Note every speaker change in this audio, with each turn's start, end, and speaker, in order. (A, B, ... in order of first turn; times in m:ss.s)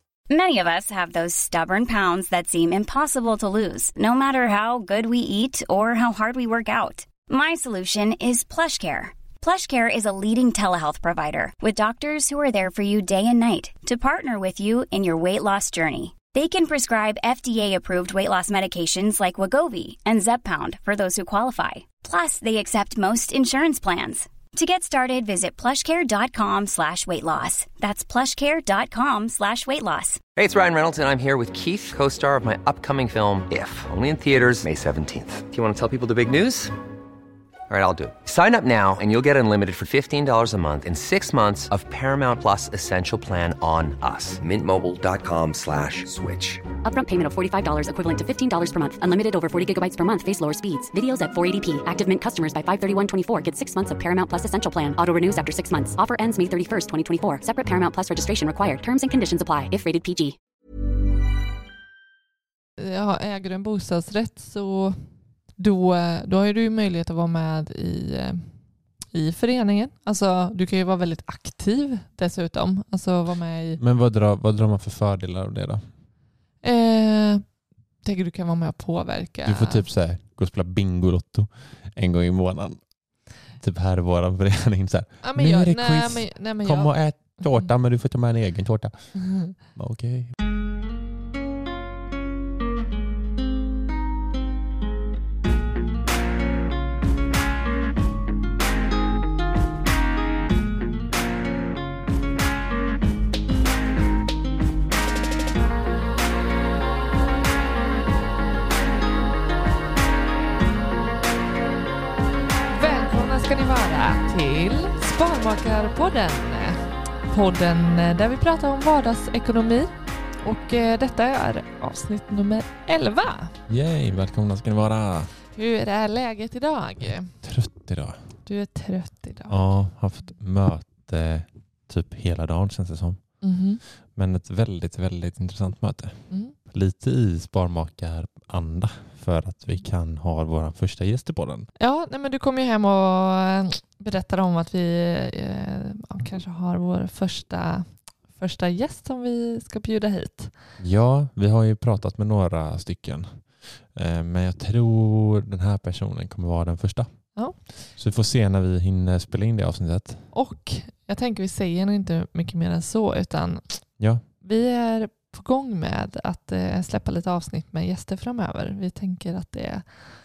0:00.3-0:30.2 A
0:30.4-0:36.7 B
0:37.7-0:46.6 B
0:46.8-1:00.4 C
1:02.8-1:05.0 D
1:05.6-1:08.4 D
1:09.1-1:13.8 D
1:13.8-1:15.8 E
1:16.6-1:17.4 D
1:18.0-1:19.9 D
1:19.4-1:22.8 E
1:23.6-1:30.4 E
1:25.2-1:27.7 D
1:29.2-1:29.6 D
1:52.7-2:03.5 D
2:03.7-2:05.3 E
2:05.5-2:07.3 D
2:07.4-2:08.2 E
2:08.5-2:09.6 D
2:09.5-2:13.2 E
2:13.4-2:13.8 D
2:14.2-2:21.7 E
2:16.3-2:16.6 D
2:21.8-2:30.5 D
2:30.8-2:37.1 E
2:38.0-2:40.3 E
2:40.3-2:43.8 D
2:44.4-2:50.0 D